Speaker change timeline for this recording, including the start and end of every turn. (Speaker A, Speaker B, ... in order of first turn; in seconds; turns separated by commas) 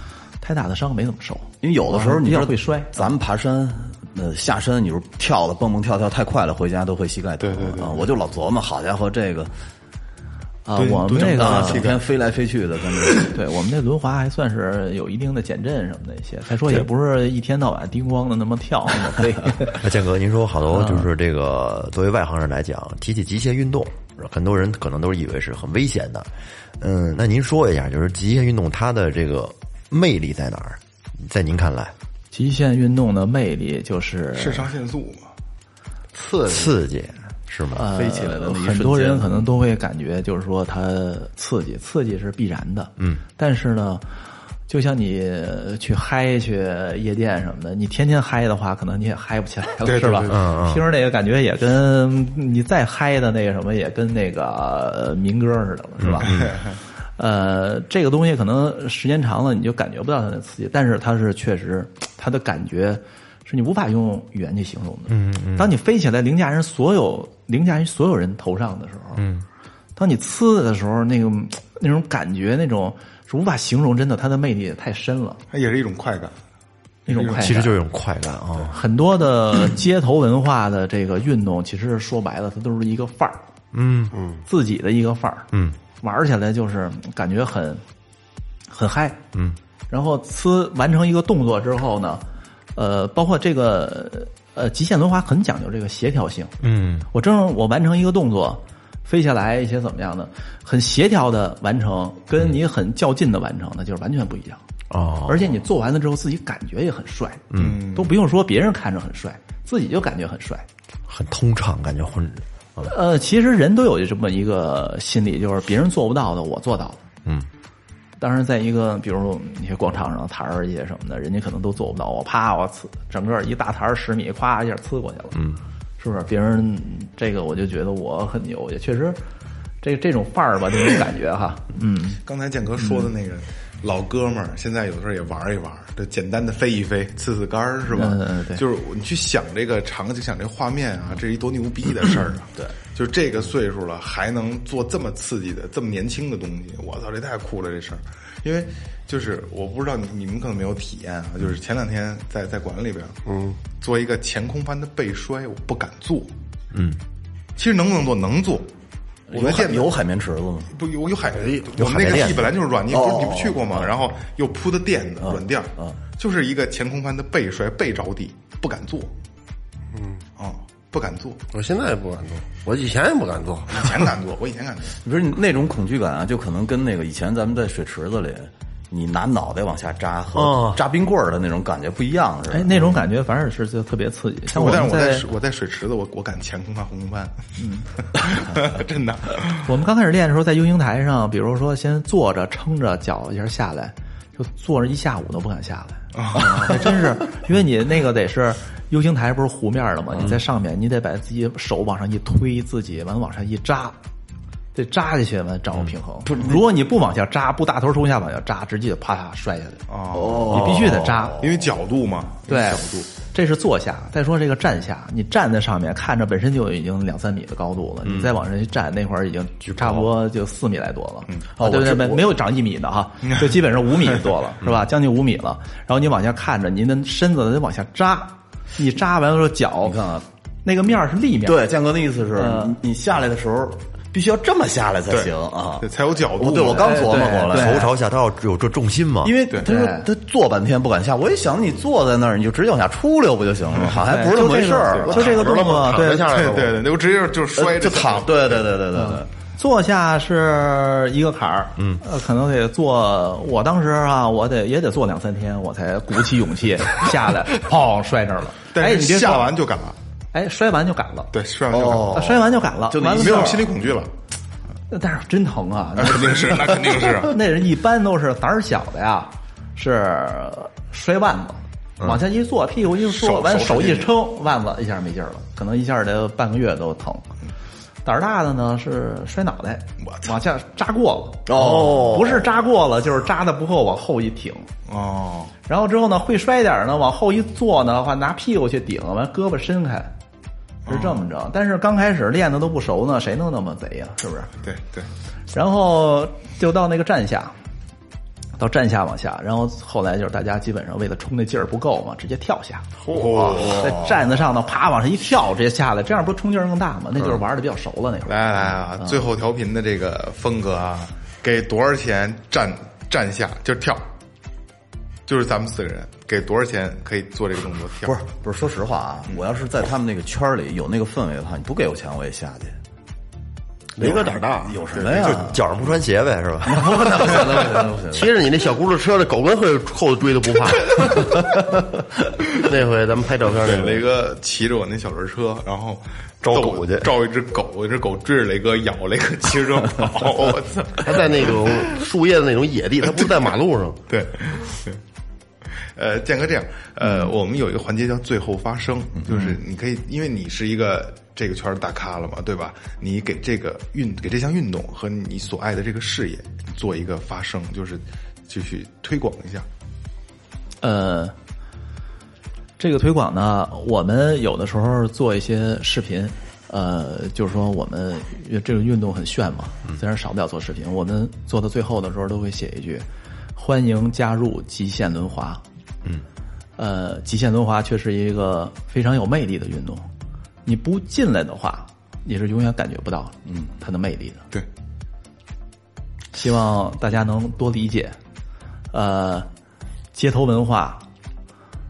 Speaker A: 0.4-3.1, Speaker B: 1.6-9.5, Speaker C: 7.4-8.1, Speaker A: 10.7-11.8, Speaker C: 10.8-12.0, Speaker B: 11.3-13.3, Speaker A: 13.2-19.8, Speaker D: 19.7-26.3, Speaker A: 20.7-21.1, Speaker D: 26.8-31.9, Speaker A: 32.3-34.7, Speaker C: 34.3-35.3, Speaker D: 36.3-37.8, Speaker A: 37.7-44.0, Speaker B: 37.9-39.5, Speaker A: 44.7-56.4, Speaker C: 49.8-50.4, Speaker D: 50.3-50.8, Speaker D: 56.0-56.5, Speaker C: 56.3-56.7, Speaker A: 57.2-69.2, Speaker D: 65.1-65.7, Speaker D: 69.2-69.4, Speaker A: 70.0-75.4, Speaker C: 75.5-76.3, Speaker C: 77.1-77.6, Speaker A: 77.1-77.7, Speaker D: 77.3-78.8, Speaker A: 78.7-83.4, Speaker D: 83.7-84.1, Speaker A: 84.5-85.5, Speaker D: 85.5-85.8, Speaker A: 86.0-87.8, Speaker A: 88.7-89.2, Speaker A: 89.9-92.2, Speaker A: 92.7-96.5, Speaker D: 96.6-97.1, Speaker A: 97.1-104.6, Speaker D: 104.9-105.5, Speaker A: 105.2-110.6, Speaker D: 107.5-107.8, Speaker C: 107.5-108.1, Speaker D: 111.1-112.9, Speaker A: 112.8-117.0, Speaker A: 118.2-125.4, Speaker A: 126.0-129.2, Speaker A: 129.8-132.2, Speaker C: 132.2-153.2, Speaker A: 132.8-133.1, Speaker A: 137.9-138.6, Speaker E: 153.3-153.6, Speaker C: 153.8-156.3, Speaker D: 156.7-157.0, Speaker C: 157.6-158.7, Speaker B: 159.3-160.7, Speaker C: 159.3-159.9, Speaker C: 160.7-169.1, Speaker E: 161.4-161.7, Speaker D: 161.8-162.5, Speaker B: 162.9-163.9, Speaker B: 165.2-166.0, Speaker E: 169.9-170.2, Speaker C: 170.4-171.4, Speaker E: 171.5-173.9, Speaker C: 173.7-175.0, Speaker B: 175.0-183.0, Speaker D: 180.3-180.8, Speaker A: 182.5-185.2, Speaker C: 184.5-187.4, Speaker A: 187.6-187.9, Speaker C: 188.1-189.7, Speaker A: 189.6-203.9, Speaker C: 196.1-197.2, Speaker A: 204.7-209.8, Speaker B: 206.3-206.6, Speaker C: 209.9-213.1, Speaker B: 210.1-211.7, Speaker A: 210.5-211.4, Speaker A: 212.5-230.0, Speaker D: 219.6-220.1, Speaker B: 221.6-222.3, Speaker B: 229.8-230.2, Speaker A: 230.6-231.6, Speaker B: 231.4-237.9, Speaker A: 232.3-232.8, Speaker C: 235.1-237.2, Speaker A: 236.7-237.9, Speaker D: 237.5-239.4, Speaker B: 239.2-245.4, Speaker A: 239.6-240.1, Speaker A: 244.0-246.3, Speaker C: 244.9-245.6, Speaker E: 245.1-246.8, Speaker C: 246.3-248.6, Speaker B: 247.5-249.3, Speaker A: 248.9-259.5, Speaker D: 251.8-252.0, Speaker C: 258.7-260.0, Speaker A: 260.3-261.3, Speaker C: 261.3-262.4, Speaker B: 261.7-263.7, Speaker A: 262.1-263.7, Speaker C: 263.1-264.1, Speaker A: 264.9-277.3, Speaker C: 266.0-267.3, Speaker C: 273.0-274.1, Speaker A: 278.0-284.7, Speaker B: 281.5-282.4, Speaker D: 281.6-282.3, Speaker C: 284.9-285.5, Speaker A: 285.7-290.1, Speaker C: 290.9-291.2, Speaker A: 290.9-294.5, Speaker C: 294.6-295.1, Speaker A: 295.5-297.5, Speaker A: 298.6-302.9, Speaker C: 303.1-303.9, Speaker D: 303.1-303.5, Speaker B: 303.4-304.2, Speaker A: 303.6-308.4, Speaker C: 308.2-314.0, Speaker A: 309.0-309.2, Speaker C: 315.3-318.1, Speaker B: 318.0-322.8, Speaker E: 324.0-324.7, Speaker B: 324.0-325.6, Speaker C: 324.9-325.4, Speaker D: 325.1-327.4, Speaker B: 326.6-328.3, Speaker E: 328.1-331.3, Speaker E: 332.6-334.0, Speaker C: 333.6-341.7, Speaker D: 336.4-337.1, Speaker E: 341.0-344.0, Speaker C: 344.1-345.0, Speaker C: 345.9-359.6, Speaker B: 349.3-349.6, Speaker A: 360.8-361.3, Speaker A: 362.8-375.6, Speaker A: 376.8-380.1, Speaker A: 380.6-384.5, Speaker A: 386.3-388.2, Speaker A: 388.9-389.5, Speaker A: 390.1-391.0